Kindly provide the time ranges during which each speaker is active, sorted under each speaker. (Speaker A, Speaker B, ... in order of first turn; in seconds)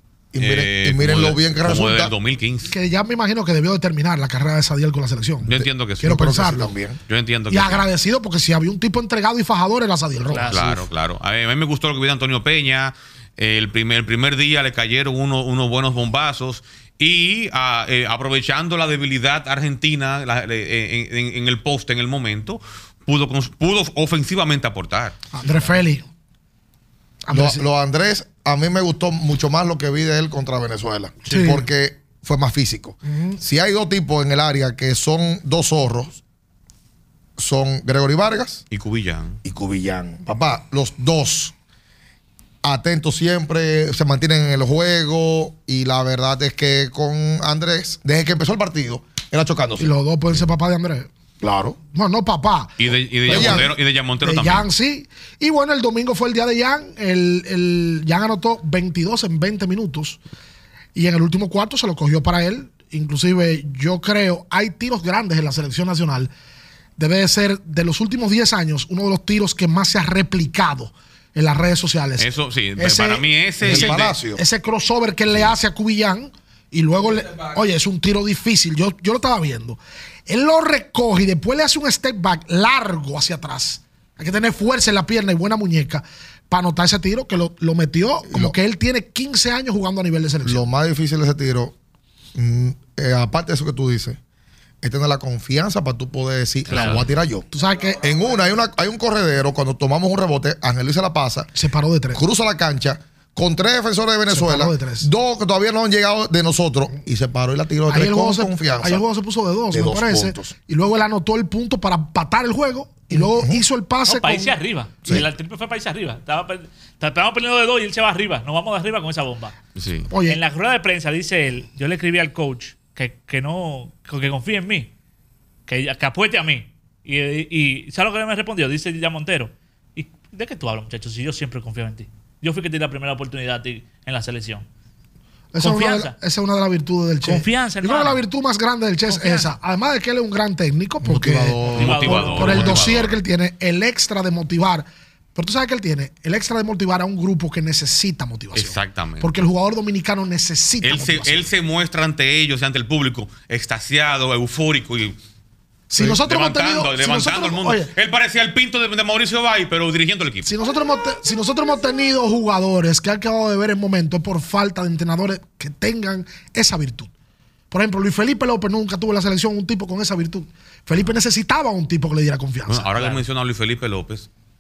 Speaker A: 0.3-2.1, 5.5-7.0, 27.3-36.2, 37.4-38.6, 39.4-41.5, 42.6-49.9, 51.4-51.8, 53.3-53.7, 73.6-74.4, 88.3-88.6, 90.4-91.8, 92.3-94.2, 94.8-97.5, 98.0-101.5, 102.1-109.0, 109.7-110.5, 113.1-113.6, 141.0-142.9
Speaker B: 0.4-2.7, 5.4-6.3, 7.1-7.9, 10.5-25.2, 38.7-39.4, 52.8-54.7, 72.2-74.2, 96.7-97.0, 119.8-120.1, 141.7-143.2, 148.6-149.3, 150.8-155.2, 156.0-160.5, 172.7-174.3
Speaker C: 2.7-6.7, 7.5-10.6, 25.3-26.1, 27.3-27.6, 31.3-31.6, 33.1-33.4, 49.8-51.1, 51.9-60.2, 60.9-66.3, 67.0-90.7, 97.5-98.0, 101.5-102.2, 104.3-105.1, 107.9-114.6, 120.1-120.4, 135.5-151.5, 155.9-157.9, 160.5-167.1, 167.7-172.9
Speaker D: 10.3-10.9, 114.1-119.6, 120.3-124.9, 125.7-134.7, 135.6-136.1, 137.2-138.2, 139.1-139.5, 141.7-142.9